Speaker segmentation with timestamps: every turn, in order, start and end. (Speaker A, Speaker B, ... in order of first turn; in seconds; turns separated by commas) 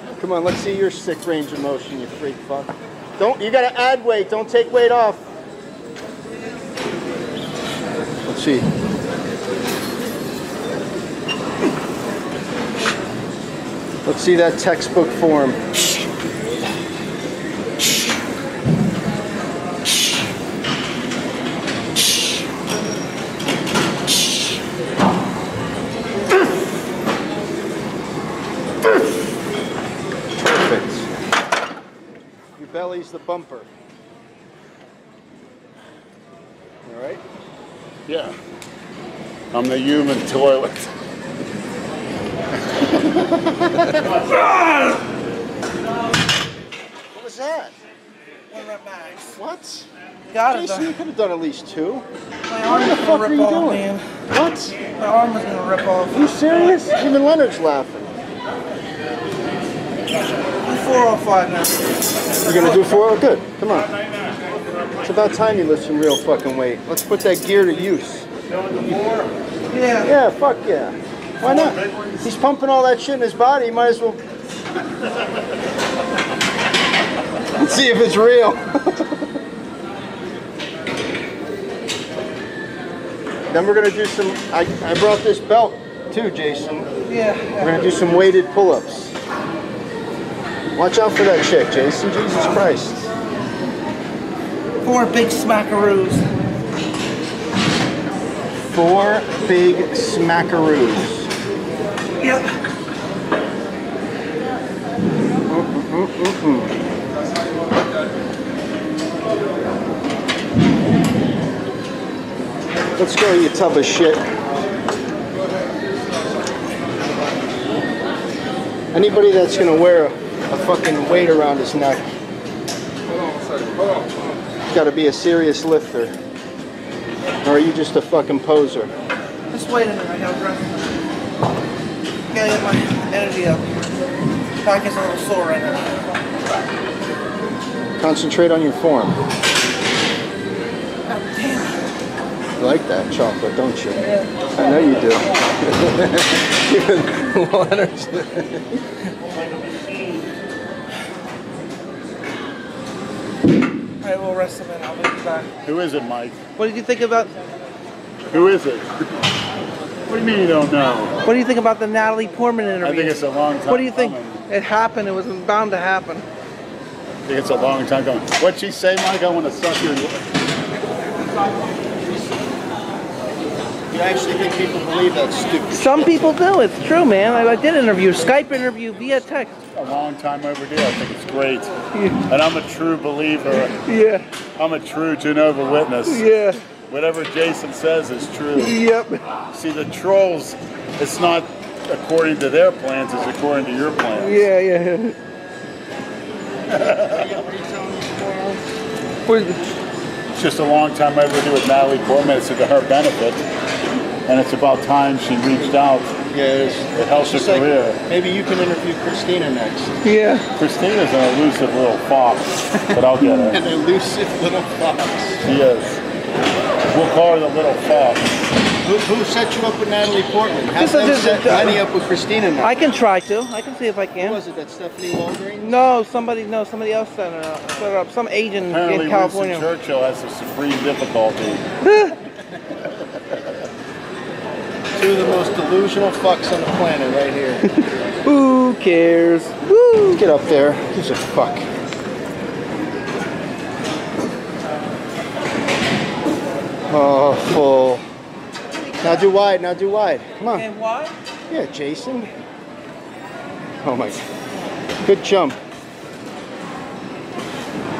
Speaker A: 0.2-5.3, Speaker A: 8.3-8.7, Speaker A: 14.1-15.6, Speaker A: 30.4-31.1, Speaker A: 32.6-33.7, Speaker A: 36.9-37.2, Speaker B: 38.1-38.4, Speaker B: 39.5-41.0, Speaker B: 42.8-44.4, Speaker A: 47.1-47.8, Speaker C: 48.5-49.4, Speaker A: 49.4-49.9, Speaker C: 50.3-50.9, Speaker A: 50.5-52.1, Speaker C: 52.5-54.1, Speaker A: 52.6-54.8, Speaker C: 55.0-56.3, Speaker A: 56.1-58.2, Speaker C: 60.6-62.9, Speaker A: 62.5-63.9, Speaker A: 65.0-68.3, Speaker C: 68.9-70.1, Speaker A: 70.0-74.2, Speaker B: 71.4-72.3, Speaker A: 77.5-79.2, Speaker A: 83.5-86.9, Speaker C: 87.1-88.0, Speaker A: 87.6-89.2, Speaker A: 90.8-93.1, Speaker C: 94.8-96.2, Speaker A: 98.7-101.3, Speaker C: 102.2-102.5, Speaker A: 105.5-106.8, Speaker A: 113.0-114.2, Speaker A: 118.9-122.1, Speaker A: 124.7-126.2, Speaker A: 127.4-128.9, Speaker C: 129.5-131.0, Speaker C: 132.3-133.9, Speaker C: 134.6-136.2, Speaker A: 138.0-139.2, Speaker C: 141.1-141.8, Speaker A: 142.6-148.8, Speaker B: 149.2-150.3, Speaker C: 154.0-155.5, Speaker B: 155.6-156.4, Speaker C: 156.6-157.4, Speaker B: 158.3-158.9, Speaker B: 160.1-161.2, Speaker C: 161.2-166.3, Speaker B: 162.8-164.5, Speaker B: 167.3-170.3, Speaker A: 173.9-176.3, Speaker C: 175.7-179.6, Speaker B: 179.8-183.8, Speaker C: 182.0-182.2, Speaker C: 183.9-184.3, Speaker B: 184.6-186.3, Speaker C: 186.1-186.6, Speaker B: 186.9-188.8, Speaker C: 188.6-189.2, Speaker B: 189.5-194.5, Speaker C: 194.2-195.2, Speaker B: 196.7-197.4, Speaker A: 197.1-198.6, Speaker C: 199.3-199.6, Speaker B: 200.3-203.5, Speaker B: 204.3-206.2, Speaker A: 206.3-210.0, Speaker B: 206.9-208.0, Speaker C: 210.0-210.5, Speaker B: 210.6-213.6, Speaker A: 213.2-215.4, Speaker B: 215.4-216.0, Speaker B: 216.9-218.4, Speaker A: 218.8-222.7, Speaker C: 220.8-221.8, Speaker C: 222.6-224.4, Speaker A: 224.2-225.8, Speaker C: 225.6-229.7, Speaker B: 228.7-231.6, Speaker C: 231.9-232.2, Speaker B: 232.8-233.4, Speaker A: 235.0-237.7, Speaker C: 238.2-240.2, Speaker A: 240.1-241.7, Speaker A: 246.9-248.1, Speaker A: 249.0-250.7, Speaker C: 250.5-251.1, Speaker A: 251.5-252.3, Speaker A: 253.8-254.2, Speaker A: 255.1-255.6